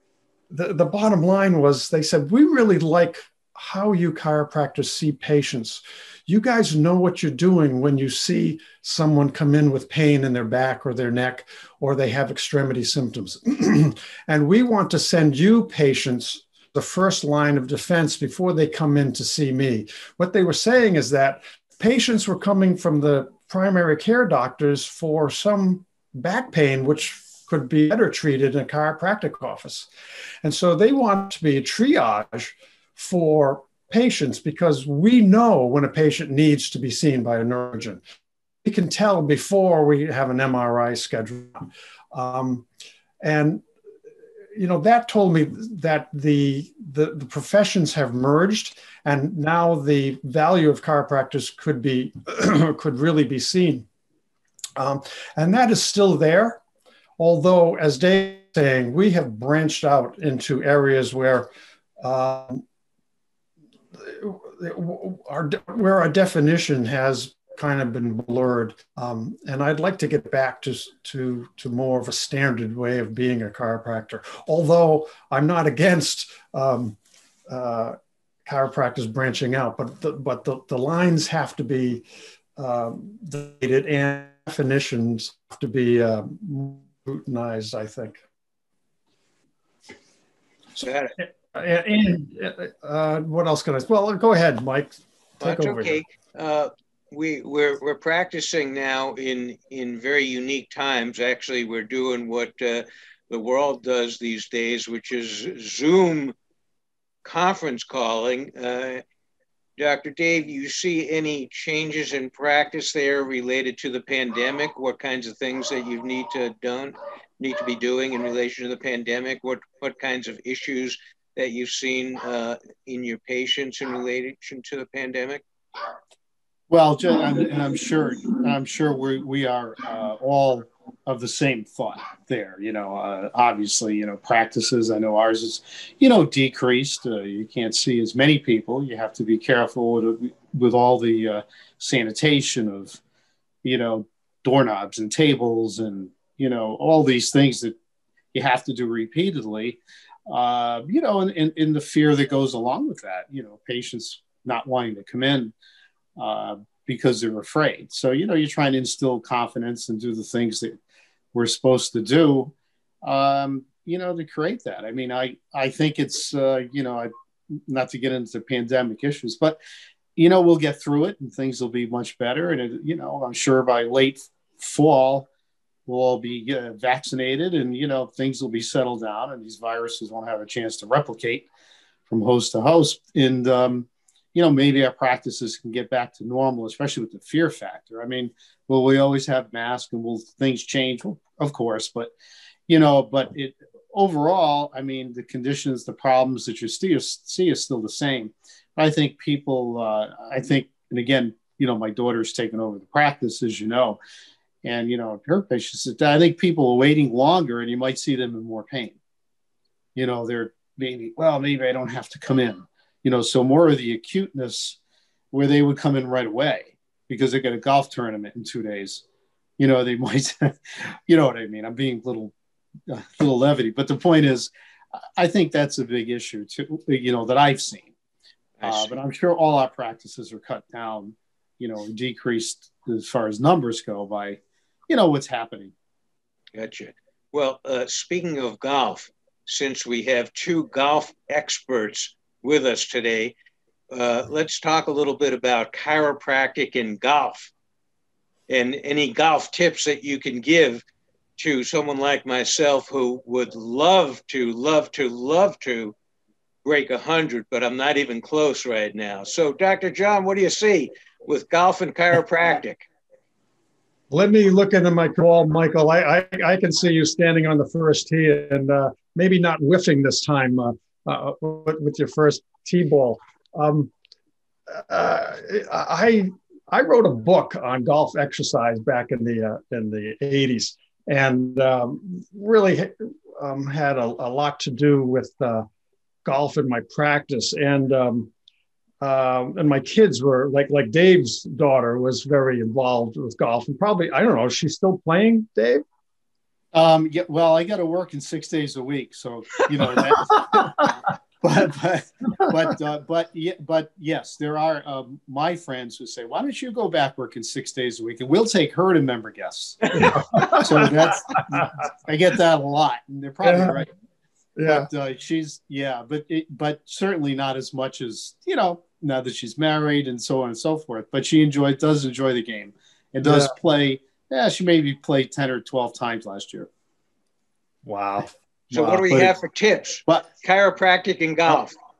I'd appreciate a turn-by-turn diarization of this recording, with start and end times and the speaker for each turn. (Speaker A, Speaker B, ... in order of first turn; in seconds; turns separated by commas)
Speaker A: 0.5-29.9, Speaker A: 30.4-38.0, Speaker A: 38.6-42.7, Speaker A: 43.2-43.6, Speaker A: 44.5-53.9, Speaker A: 54.8-56.6, Speaker A: 57.2-61.5, Speaker A: 62.0-62.6, Speaker A: 63.9-77.0, Speaker A: 77.5-82.0, Speaker A: 82.5-88.2, Speaker B: 90.8-91.1, Speaker A: 91.2-96.0, Speaker B: 95.4-106.3, Speaker B: 107.2-109.0, Speaker B: 109.8-125.4, Speaker C: 126.7-143.0, Speaker C: 143.6-147.7, Speaker C: 148.3-155.5, Speaker C: 156.2-160.8, Speaker C: 161.3-167.1, Speaker C: 167.7-169.6, Speaker C: 170.2-175.3, Speaker C: 175.9-181.4, Speaker C: 182.1-192.1, Speaker C: 192.7-204.0, Speaker C: 204.6-209.0, Speaker C: 209.9-214.8, Speaker C: 215.3-219.0, Speaker C: 219.6-222.3, Speaker C: 222.9-224.5, Speaker C: 225.2-227.9, Speaker B: 228.6-228.9, Speaker C: 228.6-235.7, Speaker B: 236.5-243.3, Speaker B: 243.9-247.5, Speaker B: 248.5-250.8, Speaker B: 251.4-255.9, Speaker B: 256.6-262.9, Speaker A: 264.1-273.9, Speaker A: 274.7-285.6, Speaker A: 286.2-288.3, Speaker A: 289.0-295.8, Speaker C: 296.7-313.9, Speaker A: 309.9-311.6, Speaker A: 313.4-313.9, Speaker A: 314.6-314.9, Speaker C: 314.6-326.7, Speaker A: 323.2-323.5, Speaker A: 327.8-329.3, Speaker B: 328.7-331.7